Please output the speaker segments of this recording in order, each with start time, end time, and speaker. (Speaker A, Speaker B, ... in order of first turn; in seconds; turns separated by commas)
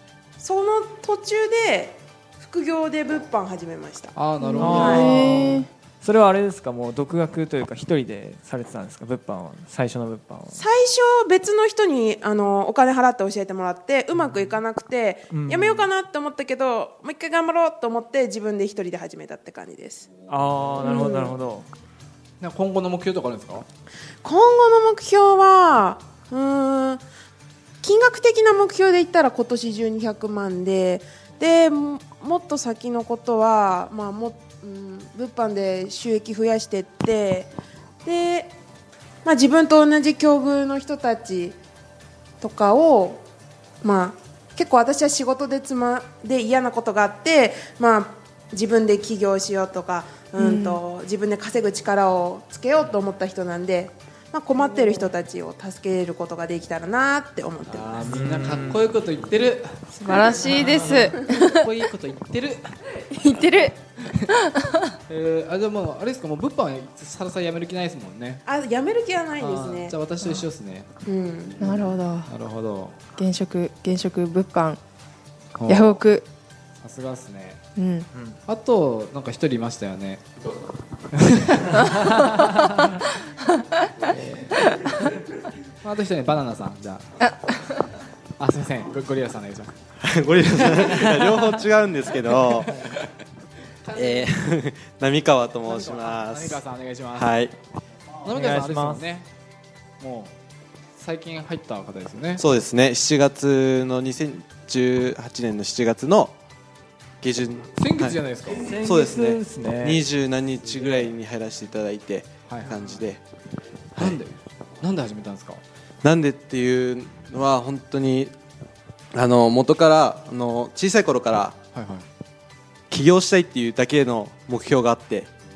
Speaker A: 0.4-4.2, Speaker B: 4.2-5.6, Speaker C: 4.4-5.7, Speaker D: 4.6-10.6, Speaker A: 4.7-5.1, Speaker A: 10.5-20.1, Speaker D: 14.3-14.6, Speaker D: 15.3-15.9, Speaker D: 20.3-21.7, Speaker A: 20.8-21.3, Speaker B: 22.4-23.7, Speaker A: 24.2-27.0, Speaker A: 27.8-37.5, Speaker A: 38.0-38.5, Speaker A: 39.2-41.6, Speaker A: 42.4-43.2, Speaker A: 43.8-58.0, Speaker C: 50.4-50.8, Speaker C: 54.6-55.1, Speaker B: 57.7-62.7, Speaker D: 58.0-58.8, Speaker C: 60.0-61.7, Speaker D: 60.6-61.0, Speaker C: 63.0-63.8, Speaker C: 64.3-64.9, Speaker B: 65.1-68.4, Speaker A: 68.5-70.0, Speaker B: 69.4-70.9, Speaker A: 71.1-71.6, Speaker C: 71.6-72.3, Speaker B: 71.6-73.0, Speaker C: 73.2-74.8, Speaker B: 75.6-76.0, Speaker C: 75.7-76.2, Speaker B: 76.8-77.6, Speaker C: 77.8-78.1, Speaker D: 78.1-78.4, Speaker B: 78.5-80.3, Speaker B: 81.1-82.0, Speaker B: 84.0-85.1, Speaker B: 85.8-87.1, Speaker B: 88.4-89.7, Speaker E: 90.0-92.7, Speaker B: 92.3-93.1, Speaker B: 93.8-94.4, Speaker E: 93.9-96.6, Speaker B: 95.7-97.3, Speaker E: 97.1-97.6, Speaker B: 98.2-99.3, Speaker D: 98.3-99.1, Speaker B: 100.0-100.3, Speaker B: 101.0-102.4, Speaker E: 102.4-106.3, Speaker E: 107.2-108.2, Speaker B: 107.8-108.7, Speaker D: 108.6-110.0, Speaker E: 108.8-113.2, Speaker B: 112.5-113.1, Speaker B: 114.0-115.6, Speaker E: 116.0-118.3, Speaker E: 119.1-121.6, Speaker B: 121.7-122.1, Speaker E: 122.9-125.3